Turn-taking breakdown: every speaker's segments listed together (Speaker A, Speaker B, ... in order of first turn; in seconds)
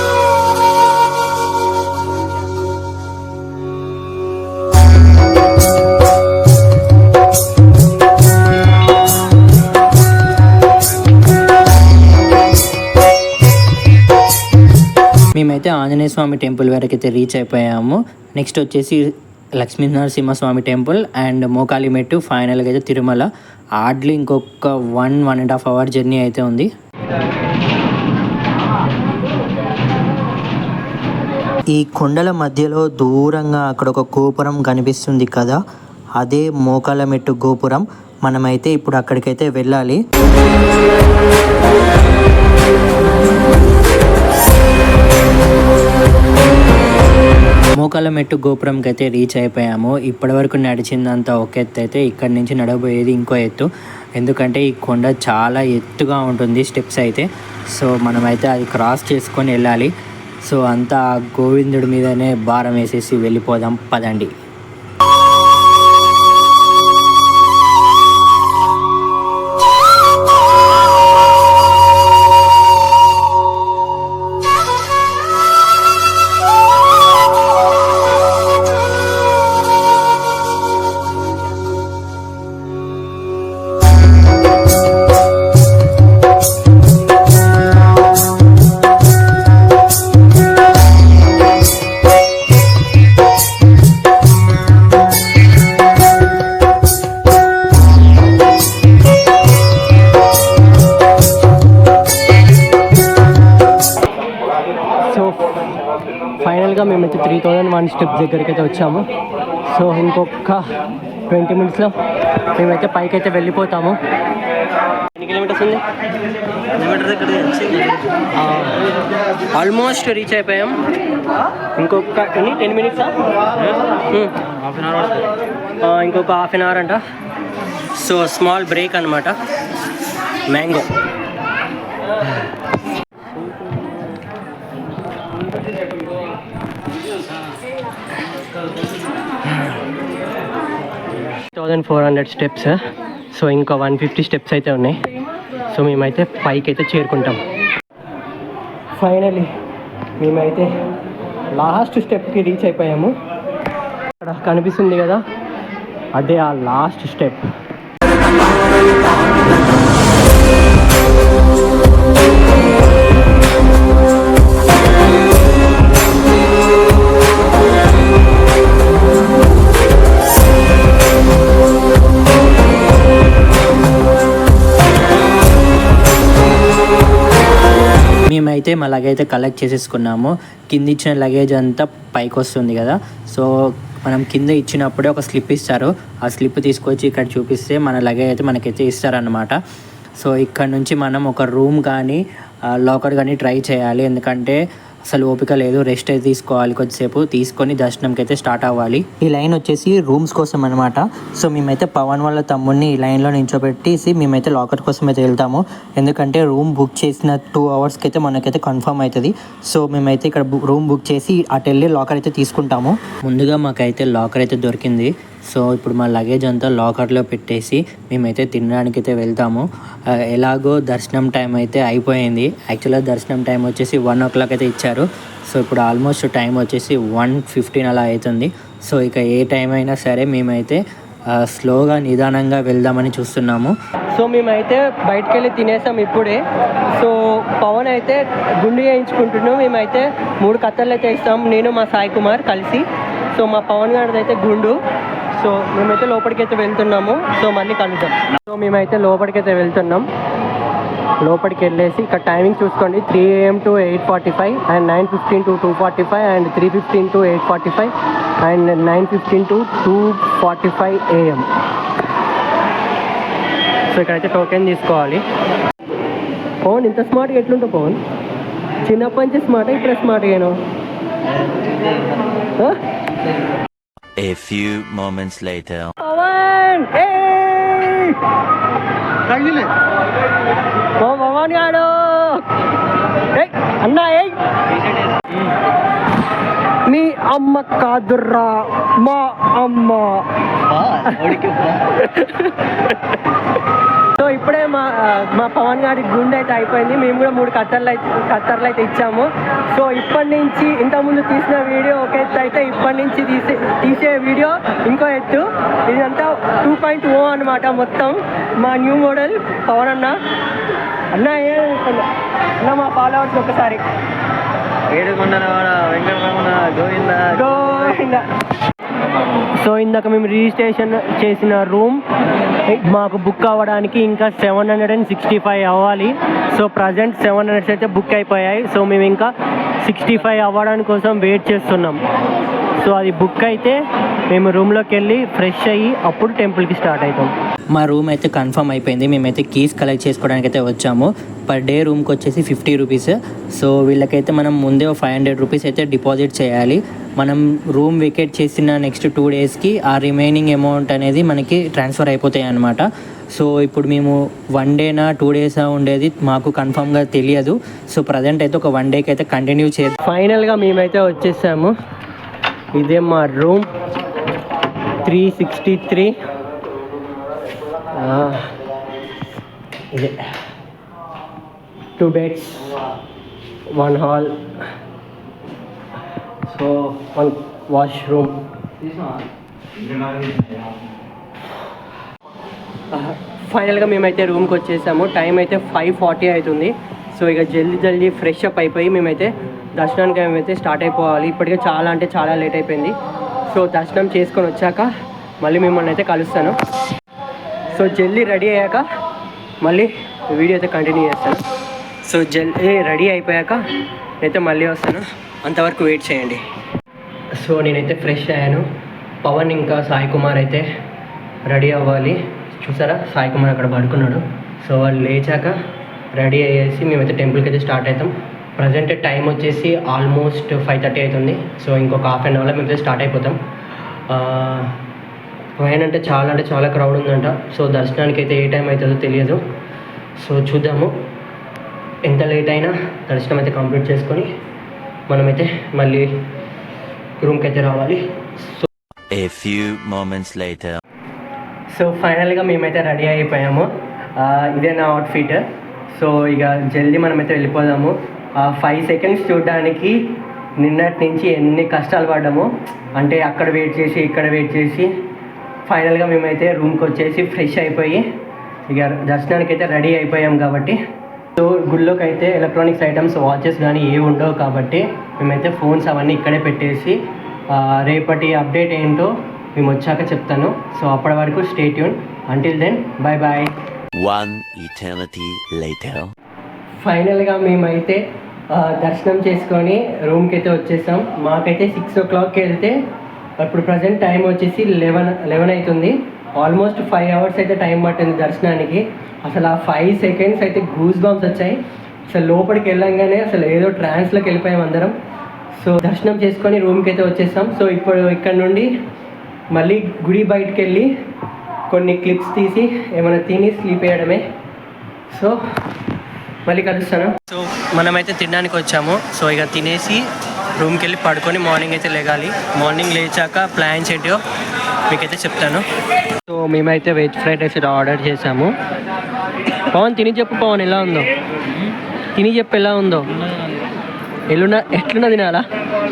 Speaker A: 15.3-26.7, 31.7-35.6, 36.2-40.0, 47.8-59.9, 60.4-64.3, 178.2-189.6, 190.2-219.7, 220.2-233.7, 337.7-360.0
Speaker B: 105.1-105.5, 106.4-109.0, 109.7-110.7, 111.3-111.9, 112.5-114.0, 115.2-115.8, 116.8-118.8, 119.5-120.8, 121.8-123.1, 125.8-127.0, 128.0-129.4, 130.5-130.9, 141.5-142.8, 143.3-145.0, 145.7-147.4, 149.0-149.5, 150.2-150.7, 151.5-153.1, 154.2-155.2, 156.1-157.4, 234.1-244.8, 245.3-250.1, 251.2-261.5, 263.9-265.2, 266.6-268.0, 268.8-270.6, 276.0-278.2, 281.0-282.4, 283.3-284.4, 286.9-290.3, 291.0-293.1, 294.1-310.2, 311.1-313.8, 317.3-318.2, 319.6-322.0, 322.6-332.0, 332.8-337.3, 360.0-361.7, 362.8-363.7, 365.0-366.1, 367.9-368.5, 369.9-370.3, 372.0-372.7, 373.7-374.5, 376.5-378.4, 382.9-392.9, 393.5-396.6, 397.7-398.9, 399.6-401.4, 402.0-403.7, 404.2-406.4, 407.4-408.6, 409.2-410.7, 411.5-415.6, 416.1-423.4, 424.1-424.8, 425.6-429.4, 430.2-430.9, 432.1-434.3, 435.1-436.2, 437.2-438.6, 441.7-450.0, 450.6-454.9, 455.6-458.1, 458.7-460.8, 461.4-467.0, 467.5-473.5, 476.8-482.8, 483.4-494.9, 495.6-498.7, 499.5-500.9, 501.7-504.2, 505.1-505.4, 506.4-514.2, 514.9-515.6, 516.3-518.5, 519.7-521.1, 522.1-523.1, 524.3-525.5
Speaker C: 124.6-125.2, 290.7-291.8, 314.9-318.0, 378.8-379.2, 379.8-380.5
Speaker D: 274.2-275.9, 439.1-440.8, 473.9-476.1